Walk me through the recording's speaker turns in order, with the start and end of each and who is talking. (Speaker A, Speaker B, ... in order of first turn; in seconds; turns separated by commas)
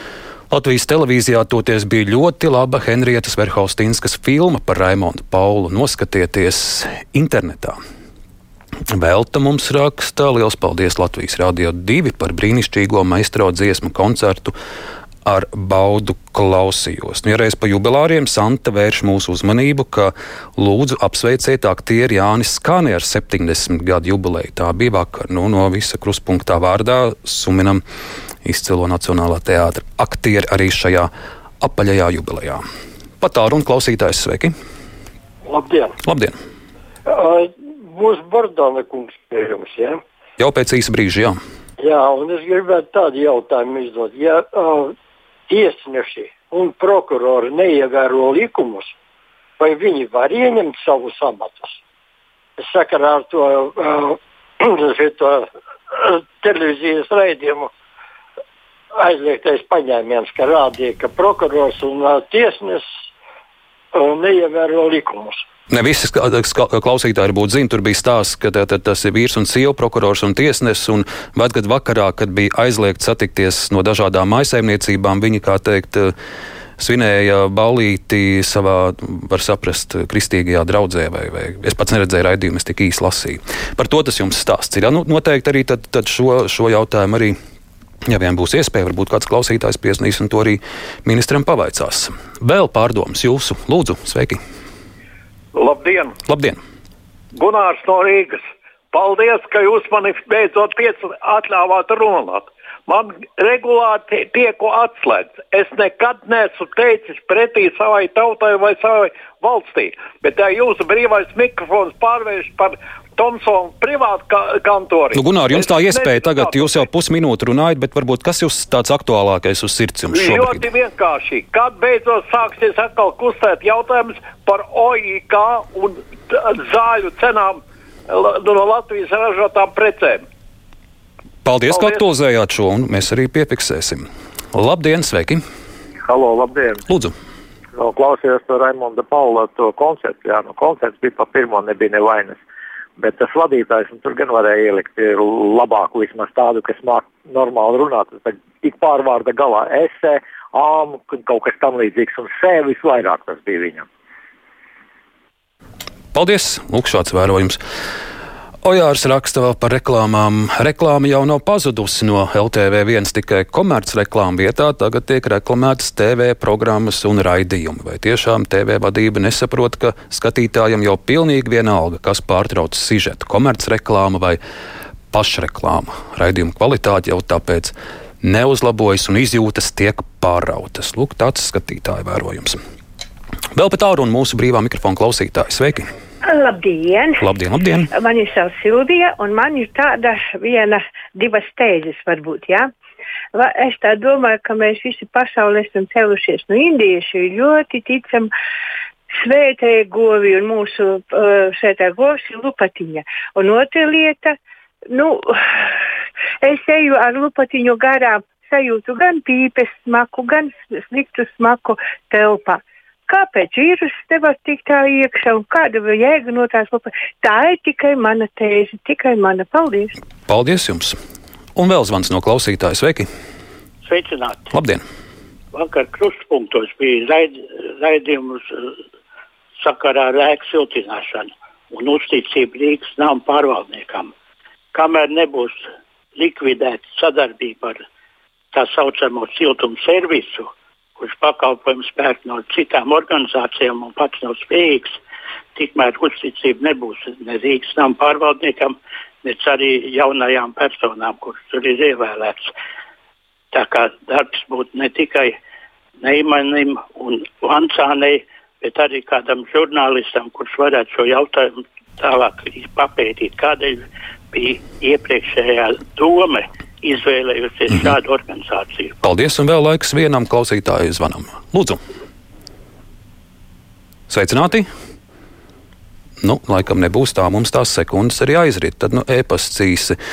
Speaker A: 0.5-7.8, Speaker A: 8.9-14.6, Speaker A: 15.2-27.8, Speaker A: 28.4-31.1, Speaker A: 31.6-32.6, Speaker A: 33.2-34.5, Speaker B: 35.5-35.8, Speaker A: 36.0-36.4, Speaker B: 38.0-39.9, Speaker A: 40.4-41.4, Speaker B: 41.9-44.9, Speaker B: 45.5-48.9, Speaker B: 49.6-51.7, Speaker B: 52.7-55.4, Speaker B: 56.0-57.7, Speaker B: 59.0-62.8, Speaker B: 64.0-65.3, Speaker A: 65.7-76.1, Speaker A: 76.8-87.3, Speaker A: 88.1-94.4, Speaker C: 95.5-96.2, Speaker A: 96.2-96.6, Speaker C: 97.3-116.6, Speaker A: 115.2-120.7, Speaker C: 120.2-130.2, Speaker A: 131.4-135.4, Speaker C: 131.8-132.0, Speaker D: 136.0-136.8, Speaker D: 137.8-142.4, Speaker D: 143.0-153.9, Speaker A: 156.1-157.6, Speaker A: 158.6-174.4, Speaker A: 175.1-182.6, Speaker A: 183.6-185.9, Speaker E: 186.2-187.3, Speaker A: 187.2-187.9, Speaker E: 187.9-192.7, Speaker E: 193.3-198.3, Speaker E: 199.1-204.4, Speaker E: 204.9-205.2, Speaker E: 206.4-219.9, Speaker A: 220.3-221.0, Speaker A: 221.6-223.1, Speaker F: 223.8-224.5, Speaker A: 224.5-224.8, Speaker F: 225.5-228.7, Speaker F: 229.6-234.1, Speaker F: 234.7-235.6, Speaker F: 236.2-237.8, Speaker F: 238.5-245.0, Speaker F: 245.6-252.5, Speaker F: 253.5-255.3, Speaker F: 256.0-269.0, Speaker A: 269.0-271.8, Speaker A: 274.1-274.7, Speaker A: 276.2-280.0